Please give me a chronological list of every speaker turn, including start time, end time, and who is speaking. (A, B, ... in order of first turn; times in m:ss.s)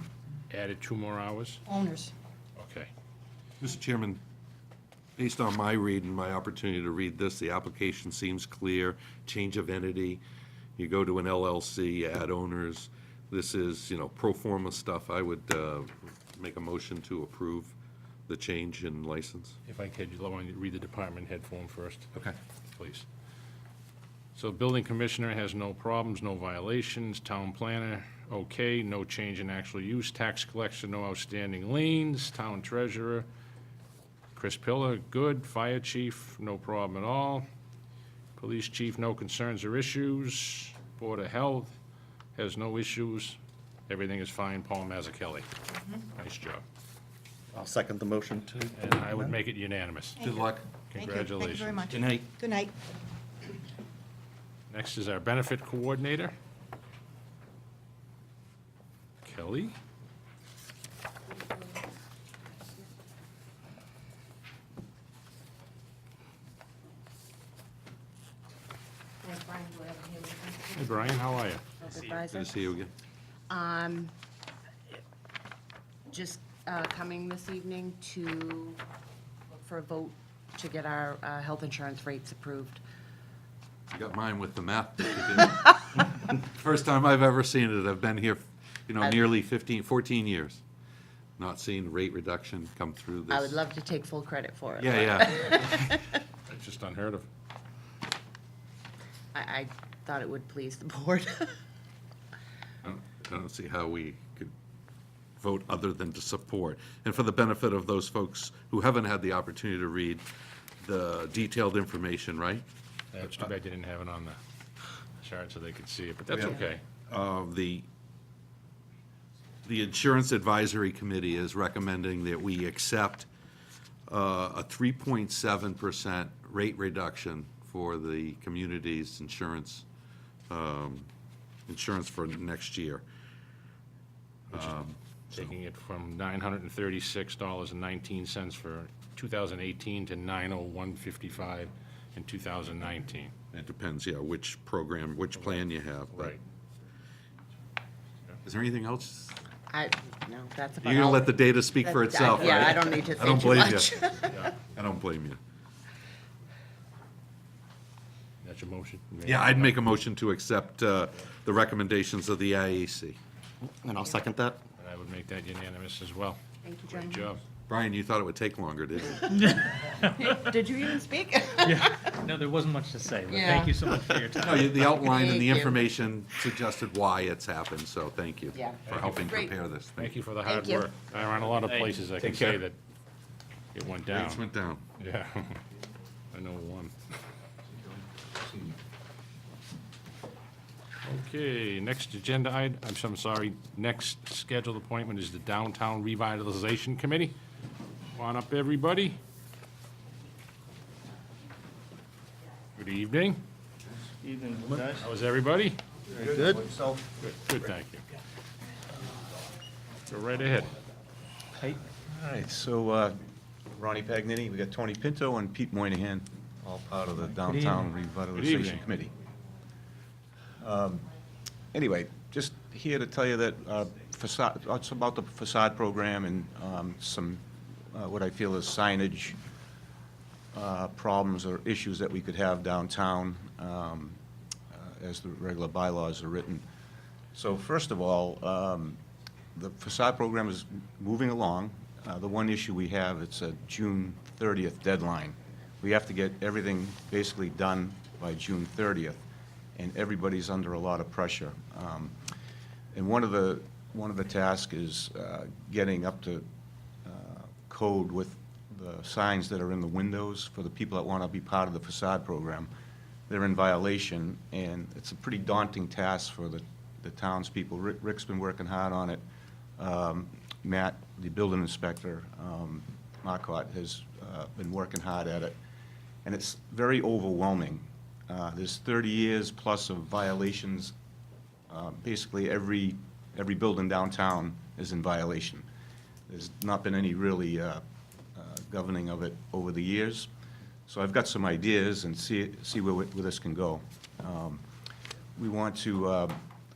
0:00.5-0:01.6 A
0:01.6-0:02.1 B
0:02.6-0:02.9 A
0:03.6-0:04.2 C
0:05.2-0:10.2 C
0:10.8-0:17.7 C
0:18.3-0:19.6 C
0:19.6-0:22.1 A
0:22.7-0:23.0 A
0:24.3-0:33.3 A
0:34.3-0:37.4 A
0:38.4-0:41.7 A
0:42.3-0:43.4 A
0:43.9-0:45.5 A
0:46.2-0:46.6 A
0:47.5-0:49.3 D
0:48.7-0:50.2 A
0:50.2-0:52.7 B
0:50.2-0:50.7 C
0:50.9-0:52.0 A
0:51.9-0:52.3 D
0:54.7-0:56.3 A
0:59.2-0:59.7 A
1:09.2-1:10.9 E
1:10.7-1:11.6 A
1:11.8-1:12.7 E
1:12.1-1:12.9 C
1:13.5-1:14.1 E
1:16.1-1:18.8 E
1:19.5-1:22.8 E
1:23.9-1:30.6 C
1:31.4-1:33.6 C
1:33.3-1:36.2 E
1:34.8-1:35.9 C
1:36.5-1:37.3 A
1:39.3-1:41.6 E
1:42.8-1:44.5 C
1:45.4-1:50.2 C
1:50.8-1:52.6 C
1:53.1-1:54.4 A
1:53.2-1:53.4 C
1:55.2-1:56.8 A
1:56.3-1:56.6 C
1:57.1-1:57.8 C
1:59.6-2:03.3 C
2:04.1-2:09.8 C
2:10.5-2:11.1 C
2:11.7-2:13.0 C
2:14.5-2:15.5 C
2:15.3-2:23.3 A
2:23.5-2:26.3 C
2:26.1-2:26.4 A
2:28.4-2:29.4 C
2:29.7-2:34.4 E
2:30.8-2:35.4 C
2:38.4-2:39.7 A
2:39.2-2:43.2 C
2:43.6-2:44.6 D
2:44.8-2:47.4 A
2:46.6-2:47.2 E
2:47.7-2:49.4 C
2:49.4-2:50.3 F
2:49.4-2:52.2 E
2:51.6-2:54.9 F
2:53.3-2:53.8 E
2:54.3-3:00.2 C
2:54.8-2:55.8 E
2:58.5-2:59.5 E
3:00.0-3:02.8 A
3:00.4-3:00.9 E
3:01.4-3:02.0 F
3:02.2-3:02.6 C
3:03.7-3:04.4 A
3:04.1-3:04.8 C
3:05.0-3:05.6 A
3:06.3-3:06.9 A
3:11.0-3:17.4 A
3:18.1-3:19.2 A
3:22.8-3:23.4 A
3:24.2-3:25.0 F
3:24.8-3:25.8 A
3:26.1-3:26.4 F
3:26.3-3:26.6 D
3:26.3-3:27.0 G
3:27.2-3:28.0 A
3:30.1-3:30.7 A
3:32.0-3:33.2 G
3:33.7-3:39.1 G
3:37.4-3:37.9 F
3:38.3-3:38.8 A
3:40.6-3:41.1 G
3:41.7-3:49.4 G
3:50.5-3:54.2 G
3:54.7-3:56.6 G
3:57.3-3:59.0 G
3:59.5-4:09.2 G
4:09.8-4:12.1 G
4:12.9-4:16.4 G
4:17.0-4:22.7 G
4:23.3-4:29.2 G
4:29.8-4:35.6 G
4:36.2-4:40.9 G
4:41.7-4:45.6 G
4:46.3-4:47.8 G
4:48.3-4:50.3 G
4:50.9-4:54.6 G
4:55.4-4:56.4 G